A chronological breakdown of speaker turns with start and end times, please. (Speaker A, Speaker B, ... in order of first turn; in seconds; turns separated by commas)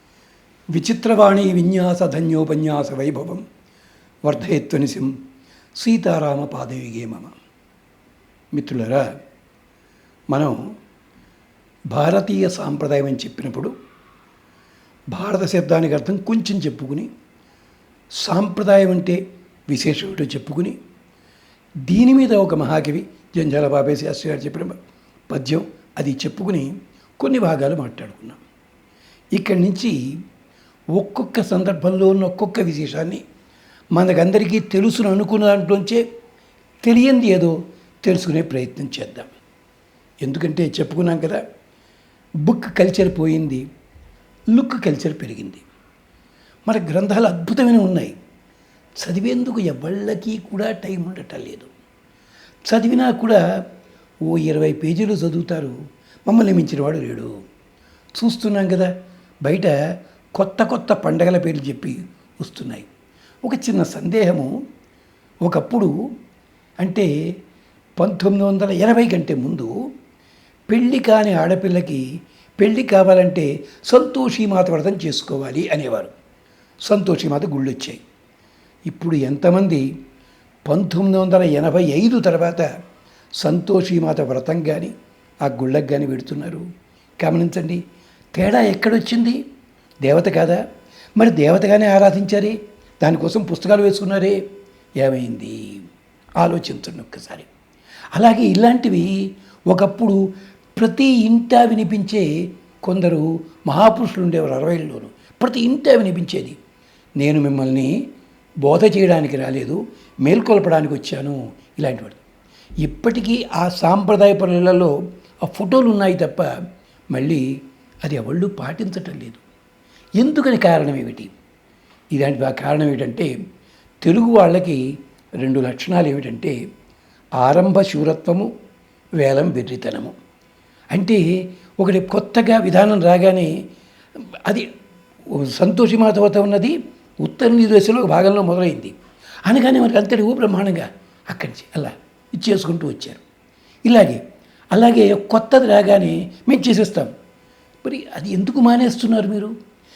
Speaker A: 0.7-3.5, Speaker A: 4.2-5.1, Speaker A: 5.8-7.3, Speaker A: 8.5-9.1, Speaker A: 10.3-10.6, Speaker A: 11.9-13.7, Speaker A: 15.1-17.1, Speaker A: 18.2-20.8, Speaker A: 21.9-24.8, Speaker A: 25.3-28.4, Speaker A: 29.4-30.0, Speaker A: 30.9-33.2, Speaker A: 33.9-36.0, Speaker A: 36.8-39.3, Speaker A: 40.2-41.4, Speaker A: 42.4-43.6, Speaker A: 44.5-45.6, Speaker A: 46.7-48.1, Speaker A: 49.0-51.7, Speaker A: 52.7-53.4, Speaker A: 54.3-55.8, Speaker A: 56.3-57.3, Speaker A: 58.2-58.9, Speaker A: 59.4-59.8, Speaker A: 60.4-62.9, Speaker A: 63.4-64.5, Speaker A: 65.4-65.9, Speaker A: 66.8-67.1, Speaker A: 68.0-69.7, Speaker A: 70.7-72.0, Speaker A: 72.6-76.1, Speaker A: 76.9-78.0, Speaker A: 78.9-79.9, Speaker A: 80.7-82.7, Speaker A: 83.4-84.9, Speaker A: 85.4-86.7, Speaker A: 87.2-87.8, Speaker A: 88.3-89.4, Speaker A: 90.0-90.6, Speaker A: 91.2-94.4, Speaker A: 95.0-95.8, Speaker A: 96.4-97.5, Speaker A: 98.2-99.2, Speaker A: 99.7-100.2, Speaker A: 100.8-102.3, Speaker A: 102.8-106.6, Speaker A: 107.2-107.9, Speaker A: 108.6-112.2, Speaker A: 112.8-114.9, Speaker A: 115.5-116.5, Speaker A: 117.1-117.5, Speaker A: 118.0-119.4, Speaker A: 120.2-121.3, Speaker A: 122.1-123.3, Speaker A: 124.0-124.8, Speaker A: 125.4-126.5, Speaker A: 127.4-128.5, Speaker A: 129.2-130.1, Speaker A: 130.9-133.5, Speaker A: 135.3-138.9, Speaker A: 139.5-143.2, Speaker A: 143.9-144.2, Speaker A: 144.7-147.1, Speaker A: 147.8-149.5